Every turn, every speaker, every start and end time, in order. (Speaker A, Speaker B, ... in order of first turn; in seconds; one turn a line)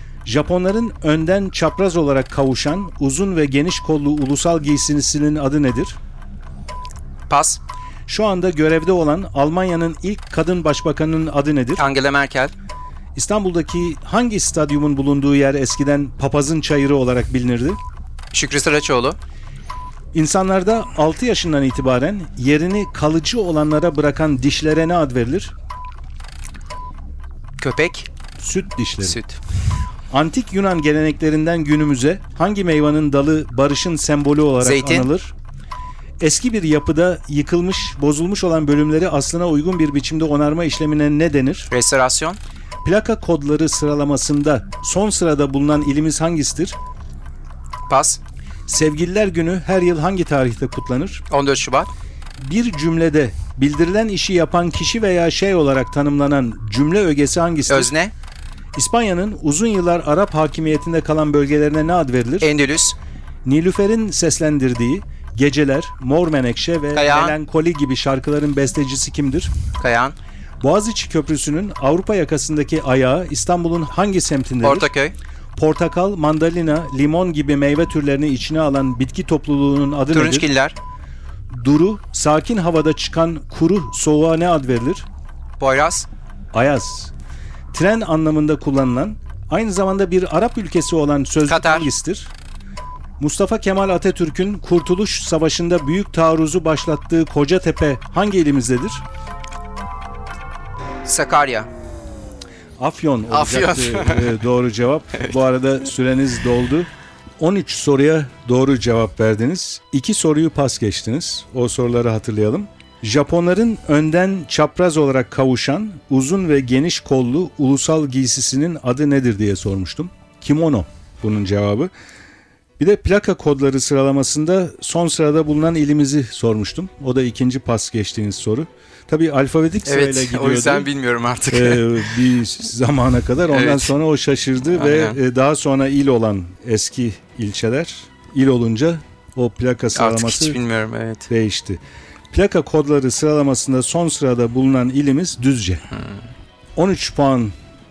Speaker A: 0.2-6.0
Speaker B: 7.3-7.6
Speaker A: 8.1-11.8
Speaker B: 11.8-12.5
Speaker A: 13.2-17.8
Speaker B: 18.3-19.2
Speaker A: 20.1-25.6
Speaker B: 27.6-28.1
Speaker A: 28.4-29.2
Speaker B: 29.0-29.4
Speaker A: 30.1-35.3
Speaker B: 34.6-35.1
Speaker A: 36.2-41.7
Speaker B: 41.7-42.4
Speaker A: 42.8-46.8
Speaker B: 47.9-48.2
Speaker A: 48.7-51.2
Speaker B: 51.3-51.9
Speaker A: 52.4-57.9
Speaker B: 57.7-58.1
Speaker A: 58.8-62.5
Speaker B: 62.4-63.0
Speaker A: 63.5-69.5
Speaker B: 66.9-67.4
Speaker B: 69.8-70.2
Speaker A: 70.6-74.9
Speaker B: 74.6-75.2
Speaker A: 75.5-80.5
Speaker B: 80.1-80.8
Speaker A: 81.5-85.1
Speaker B: 85.6-86.1
Speaker A: 86.5-87.1
Speaker A: 87.7-92.3
Speaker B: 91.5-91.9
Speaker A: 93.2-99.0
Speaker B: 101.0-101.7
Speaker A: 102.8-121.9
Speaker B: 103.3-104.3
Speaker A: 122.8-130.9
Speaker B: 129.9-132.1
Speaker A: 131.5-140.6
Speaker B: 133.5-133.9
Speaker B: 134.7-135.2
Speaker B: 139.9-141.3
Speaker A: 141.3-145.8
Speaker A: 146.8-147.5